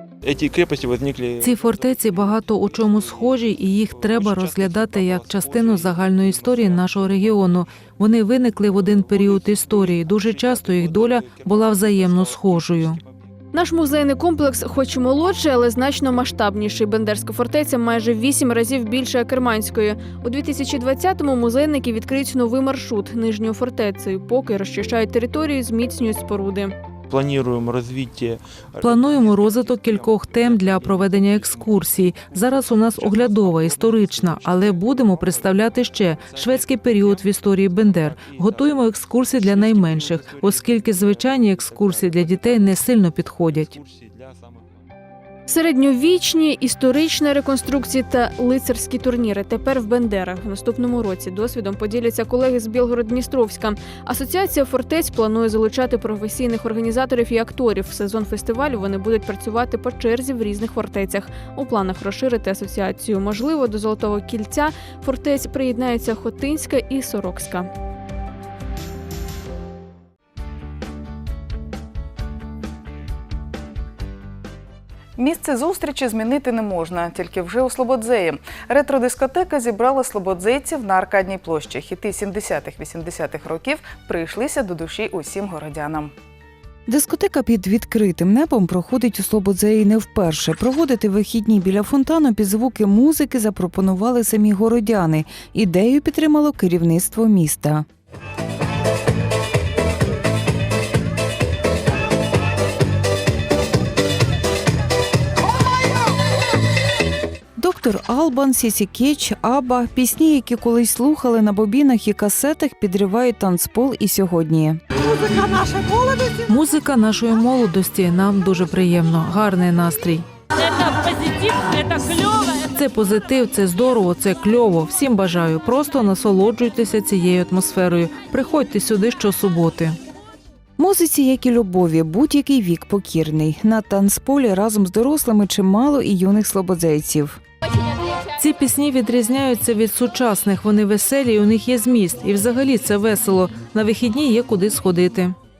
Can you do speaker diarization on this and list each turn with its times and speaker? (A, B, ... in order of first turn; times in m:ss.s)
0:00.2-0:01.8 A
0:01.4-0:13.0 B
0:04.4-0:05.1 A
0:10.9-0:11.4 A
0:13.5-0:26.7 C
0:27.1-0:30.9 A
0:28.8-0:43.8 B
0:45.5-1:07.7 C
1:15.2-1:26.1 D
1:26.9-1:37.8 E
1:47.6-1:54.8 E
1:56.4-2:00.3 B
2:01.0-2:10.0 B
2:10.8-2:17.4 E
2:18.4-2:25.4 B